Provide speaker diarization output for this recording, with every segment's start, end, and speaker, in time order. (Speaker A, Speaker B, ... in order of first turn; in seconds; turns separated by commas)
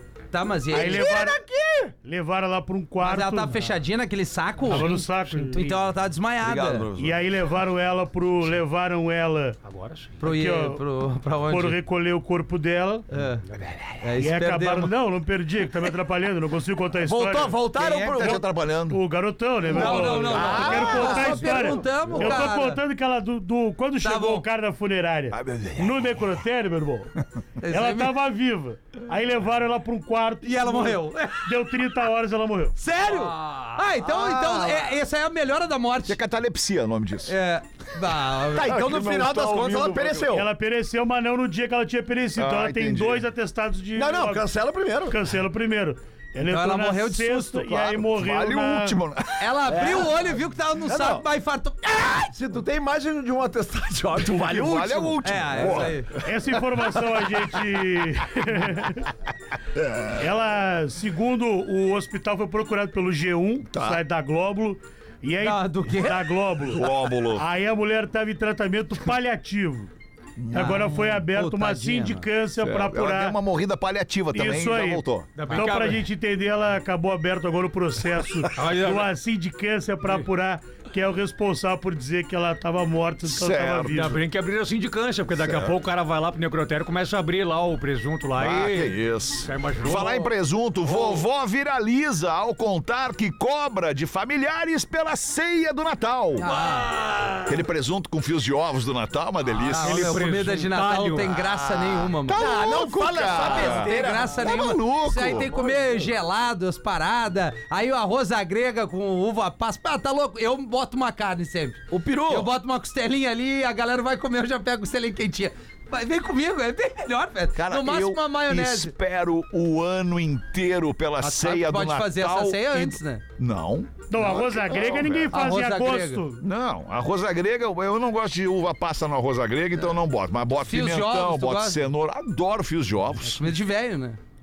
Speaker A: 0.3-1.2, Speaker B: 0.7-1.4, Speaker C: 1.6-1.9, Speaker B: 2.0-3.6, Speaker A: 3.0-4.9, Speaker B: 4.7-5.8, Speaker D: 4.7-5.6, Speaker A: 5.5-6.9, Speaker E: 6.4-7.2, Speaker B: 6.9-9.6, Speaker D: 9.7-10.1, Speaker A: 10.2-11.8, Speaker B: 10.2-10.8, Speaker B: 11.5-13.1, Speaker A: 13.1-13.4, Speaker A: 14.0-14.9, Speaker B: 14.2-27.1, Speaker C: 17.2-18.4, Speaker E: 17.3-19.0, Speaker A: 17.5-17.8, Speaker E: 19.6-21.0, Speaker A: 19.7-22.8, Speaker C: 20.3-21.8, Speaker A: 24.0-24.4, Speaker E: 25.3-26.4, Speaker A: 27.6-28.2, Speaker B: 27.7-32.8, Speaker A: 30.4-31.5, Speaker A: 32.8-36.2, Speaker D: 33.0-33.8, Speaker C: 34.0-35.0, Speaker E: 36.1-37.3, Speaker A: 37.3-39.6, Speaker C: 38.5-40.5, Speaker E: 38.7-40.1, Speaker B: 40.2-44.5, Speaker E: 42.4-43.3, Speaker C: 44.0-45.2, Speaker B: 45.1-49.0, Speaker A: 46.5-47.7, Speaker E: 47.7-49.5, Speaker A: 49.4-51.8, Speaker C: 49.7-51.2, Speaker C: 51.9-55.8, Speaker E: 54.4-56.3, Speaker A: 55.2-56.1, Speaker B: 56.2-59.1, Speaker E: 59.8-60.1, Speaker B: 60.2-69.9, Speaker E: 63.7-64.0, Speaker A: 65.4-66.3, Speaker E: 66.7-67.4, Speaker E: 70.4-71.0, Speaker B: 70.5-73.4, Speaker A: 70.5-72.2, Speaker E: 72.6-75.4, Speaker B: 74.3-84.2, Speaker D: 75.4-76.0, Speaker A: 75.5-75.8, Speaker D: 78.6-79.1, Speaker E: 83.2-84.2, Speaker D: 83.9-90.3, Speaker E: 85.3-85.8, Speaker E: 88.4-96.5, Speaker D: 90.9-91.2, Speaker A: 96.4-96.9, Speaker D: 96.6-97.5, Speaker E: 97.5-100.2, Speaker D: 99.6-101.3, Speaker A: 99.7-102.4, Speaker E: 101.6-105.5, Speaker C: 102.4-104.7, Speaker A: 103.3-118.9, Speaker C: 105.3-106.1, Speaker C: 111.9-112.5, Speaker E: 117.5-125.3, Speaker A: 121.2-123.2, Speaker B: 124.1-126.4, Speaker A: 125.3-126.2, Speaker E: 126.4-133.5, Speaker A: 130.6-131.8, Speaker A: 133.3-134.2